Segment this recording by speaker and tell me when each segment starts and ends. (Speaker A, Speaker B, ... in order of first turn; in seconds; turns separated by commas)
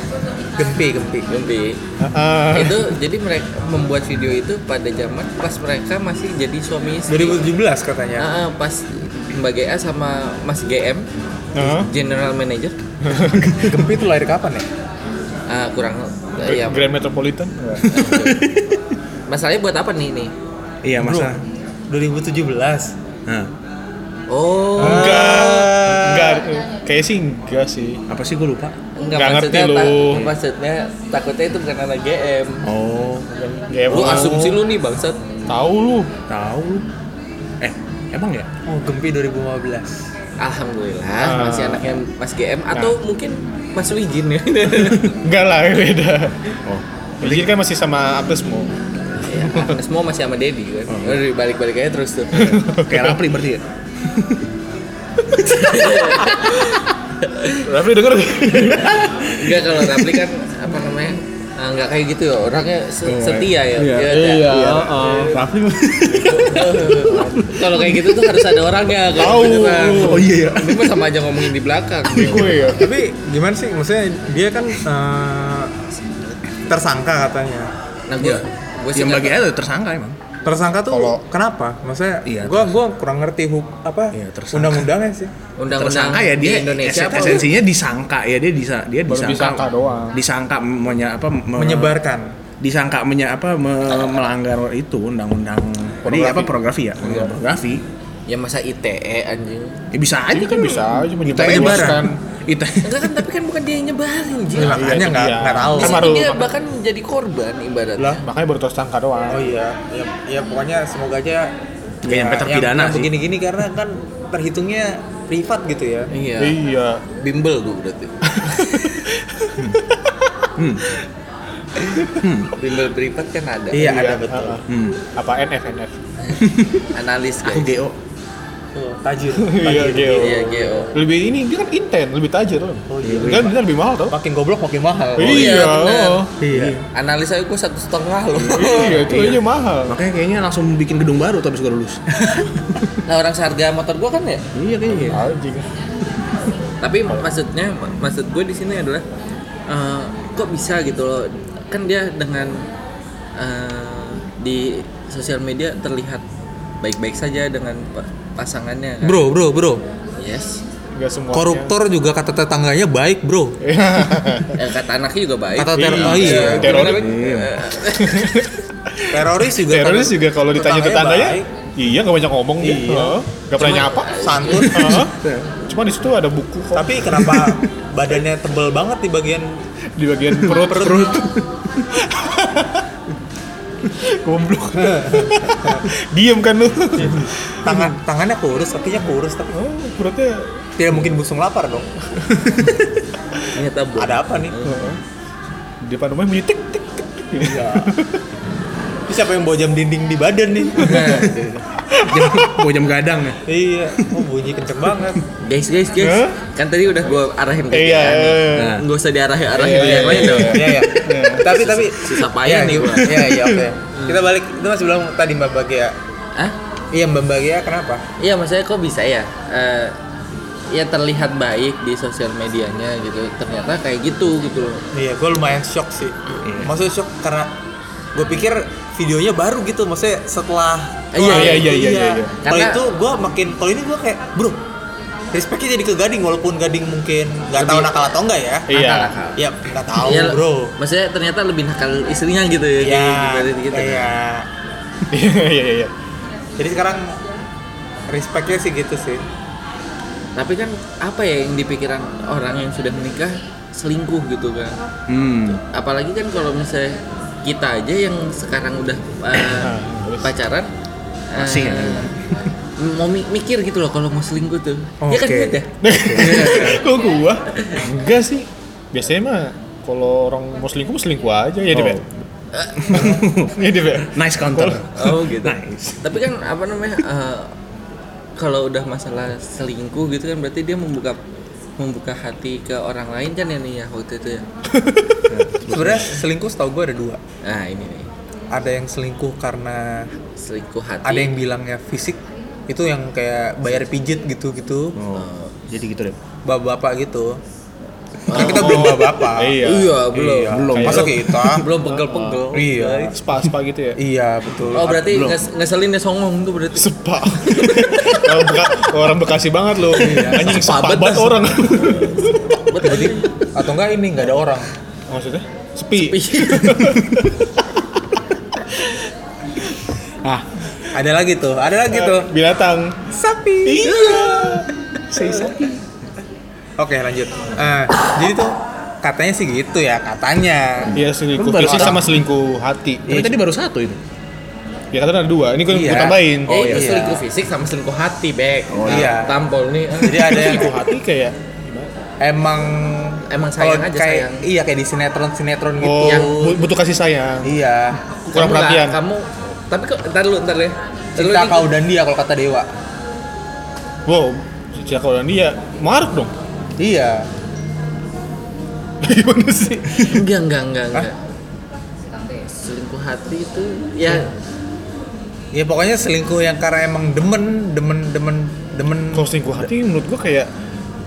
Speaker A: 0.6-1.3, Speaker B: 1.3-1.8, Speaker C: 2.0-3.0, Speaker B: 2.5-7.4, Speaker A: 7.1-8.3, Speaker B: 8.2-11.1, Speaker C: 11.5-11.9, Speaker B: 11.6-12.8, Speaker C: 13.0-13.5, Speaker D: 13.4-13.7, Speaker A: 13.6-14.6, Speaker B: 15.5-16.8, Speaker C: 16.4-17.9, Speaker D: 17.8-18.8, Speaker B: 17.9-18.4, Speaker B: 19.3-20.3, Speaker D: 20.8-21.4, Speaker A: 21.0-21.3, Speaker A: 21.9-22.9, Speaker B: 24.3-25.4, Speaker C: 24.8-28.0, Speaker A: 24.8-26.4, Speaker D: 28.1-28.7, Speaker B: 28.9-32.6, Speaker C: 29.1-30.2, Speaker D: 32.6-33.5, Speaker C: 33.5-34.6, Speaker B: 33.9-35.2, Speaker A: 34.0-34.6, Speaker C: 35.5-36.1, Speaker D: 36.3-36.8, Speaker D: 37.6-38.5, Speaker A: 38.7-40.0, Speaker B: 40.4-45.1, Speaker C: 41.2-41.9, Speaker C: 45.2-46.4, Speaker D: 46.6-47.5, Speaker C: 47.2-48.7, Speaker B: 49.2-52.6, Speaker C: 49.4-49.7, Speaker D: 50.9-51.2, Speaker C: 52.3-53.2, Speaker D: 52.7-54.4, Speaker B: 55.4-57.6, Speaker D: 57.7-60.1, Speaker C: 57.8-58.9, Speaker B: 58.8-65.3, Speaker D: 63.1-68.4, Speaker C: 64.0-66.8, Speaker B: 66.1-72.7, Speaker C: 69.1-70.3, Speaker D: 69.9-71.3, Speaker D: 72.1-72.6, Speaker C: 72.1-72.9, Speaker A: 72.8-75.7, Speaker A: 76.7-77.7, Speaker B: 78.1-79.4, Speaker D: 78.9-80.2, Speaker A: 80.4-85.3, Speaker C: 80.9-81.2, Speaker D: 82.2-82.7, Speaker D: 84.1-84.9, Speaker B: 85.6-87.5, Speaker D: 85.7-92.0, Speaker C: 89.1-90.2, Speaker A: 91.5-92.3, Speaker D: 92.6-97.8, Speaker A: 96.0-96.5, Speaker B: 98.3-99.8, Speaker D: 99.9-103.2, Speaker C: 100.3-102.2, Speaker A: 101.3-102.0, Speaker B: 102.8-104.8, Speaker A: 104.5-106.2, Speaker C: 104.7-106.5, Speaker B: 105.8-108.2, Speaker C: 108.2-109.5, Speaker A: 109.3-111.5, Speaker D: 112.0-113.1, Speaker A: 112.0-116.1, Speaker B: 116.1-116.6, Speaker C: 116.4-117.0, Speaker B: 117.1-119.0, Speaker C: 118.5-120.2, Speaker D: 120.5-120.8, Speaker D: 122.2-122.5, Speaker B: 122.5-124.0, Speaker A: 123.7-124.6, Speaker C: 123.8-126.0, Speaker D: 124.7-125.0, Speaker D: 126.3-126.9, Speaker B: 126.9-127.8, Speaker D: 127.4-127.9, Speaker A: 128.7-130.9, Speaker C: 129.4-134.1, Speaker B: 130.2-130.9, Speaker A: 132.9-135.6, Speaker D: 133.0-133.5, Speaker C: 135.2-136.8, Speaker B: 135.2-136.3, Speaker A: 136.4-136.8, Speaker B: 136.9-139.1, Speaker D: 138.3-142.3, Speaker C: 138.5-140.0, Speaker B: 143.0-144.4, Speaker D: 144.5-145.2, Speaker C: 144.9-145.7, Speaker B: 146.8-149.0, Speaker B: 149.7-152.6, Speaker B: 153.4-156.2, Speaker B: 156.8-159.2, Speaker A: 159.0-159.8, Speaker B: 160.2-160.6, Speaker C: 160.9-161.7, Speaker A: 161.3-163.6, Speaker C: 163.6-164.6, Speaker B: 164.6-168.5, Speaker A: 165.6-166.8, Speaker C: 165.7-167.1, Speaker D: 166.8-167.6, Speaker C: 167.9-175.1, Speaker A: 169.1-171.5, Speaker A: 172.6-173.2, Speaker B: 173.6-174.8, Speaker A: 174.1-175.0, Speaker D: 174.7-175.5, Speaker C: 175.7-177.5, Speaker A: 176.7-179.6, Speaker C: 180.0-181.3, Speaker D: 180.3-181.9, Speaker A: 180.5-181.2, Speaker C: 181.9-182.8, Speaker C: 184.1-187.9, Speaker A: 184.8-185.8, Speaker A: 187.6-189.6, Speaker C: 189.5-190.5, Speaker A: 190.8-191.9, Speaker D: 192.2-192.7, Speaker B: 193.5-194.9, Speaker A: 194.0-194.6, Speaker C: 194.6-195.0, Speaker C: 195.8-198.2, Speaker A: 197.3-197.9, Speaker A: 199.1-201.4, Speaker B: 200.8-201.5, Speaker D: 200.9-201.3, Speaker C: 201.9-202.6, Speaker D: 202.0-203.4, Speaker A: 203.5-205.2, Speaker B: 205.4-213.2, Speaker C: 206.0-206.4, Speaker C: 207.7-208.8, Speaker D: 208.5-208.8, Speaker C: 209.5-211.5, Speaker A: 209.8-215.9, Speaker D: 209.8-210.1, Speaker D: 213.0-213.6, Speaker B: 213.9-214.2, Speaker A: 216.9-218.0, Speaker B: 218.2-220.0, Speaker B: 220.7-224.8, Speaker A: 224.9-227.5, Speaker D: 226.4-226.7, Speaker A: 228.1-234.6, Speaker B: 231.1-231.7, Speaker C: 231.2-232.3, Speaker B: 232.4-232.8, Speaker A: 235.3-238.7, Speaker B: 237.5-237.9, Speaker C: 238.7-239.1, Speaker B: 238.7-239.4, Speaker A: 239.3-240.7, Speaker B: 240.0-244.1, Speaker A: 242.8-244.5, Speaker C: 245.1-245.9, Speaker A: 246.6-247.2, Speaker A: 248.1-249.2, Speaker B: 250.3-254.8, Speaker D: 255.1-255.6, Speaker B: 255.7-260.7, Speaker C: 259.4-260.3, Speaker B: 261.3-262.1, Speaker D: 261.4-262.3, Speaker B: 262.8-266.8, Speaker A: 265.0-266.7, Speaker C: 265.8-272.0, Speaker D: 266.3-266.6, Speaker B: 267.5-267.8, Speaker D: 271.7-272.0, Speaker B: 272.5-273.1, Speaker D: 272.8-276.1, Speaker C: 272.9-274.9, Speaker B: 274.9-277.5, Speaker B: 278.4-281.2, Speaker B: 281.8-284.4, Speaker C: 284.7-285.2, Speaker D: 285.3-286.2, Speaker A: 285.7-287.2, Speaker B: 287.4-288.1, Speaker A: 288.5-290.1, Speaker B: 290.4-291.3, Speaker A: 291.0-294.9, Speaker D: 294.9-296.1, Speaker B: 295.1-295.5, Speaker A: 296.4-297.4, Speaker B: 298.2-299.1, Speaker A: 298.3-299.6, Speaker C: 298.3-301.2, Speaker B: 299.6-303.1, Speaker A: 300.1-301.7, Speaker D: 300.2-301.6, Speaker C: 301.7-302.4, Speaker A: 302.5-303.1, Speaker C: 303.1-304.0, Speaker A: 304.0-304.9, Speaker B: 304.7-308.6, Speaker D: 304.8-305.4, Speaker C: 306.7-312.6, Speaker B: 309.9-311.4, Speaker A: 310.0-310.5, Speaker D: 311.7-312.0, Speaker B: 312.6-313.3, Speaker A: 312.8-314.7, Speaker C: 315.1-318.2, Speaker B: 315.9-317.0, Speaker A: 320.9-322.3, Speaker C: 321.9-323.0, Speaker A: 323.1-324.2, Speaker C: 323.6-325.6, Speaker D: 323.9-324.6, Speaker B: 324.0-324.3, Speaker D: 325.1-325.8, Speaker A: 326.8-331.0, Speaker D: 330.9-332.0, Speaker C: 330.9-333.3, Speaker A: 331.6-332.0, Speaker D: 333.1-334.0, Speaker C: 334.9-336.6, Speaker A: 335.7-337.2, Speaker B: 336.5-340.6, Speaker D: 336.5-336.9, Speaker D: 338.7-339.2, Speaker A: 338.8-339.4, Speaker A: 340.0-340.8, Speaker C: 340.1-341.9, Speaker A: 342.2-346.6, Speaker B: 343.3-344.4, Speaker C: 345.8-347.5, Speaker B: 346.0-346.4, Speaker A: 347.4-348.0, Speaker B: 348.3-351.7, Speaker C: 348.3-349.0, Speaker A: 351.2-352.7, Speaker C: 354.1-356.3, Speaker A: 356.8-357.3, Speaker C: 359.0-360.2, Speaker B: 360.0-361.1, Speaker B: 362.4-364.3, Speaker A: 365.5-369.3, Speaker C: 369.1-370.5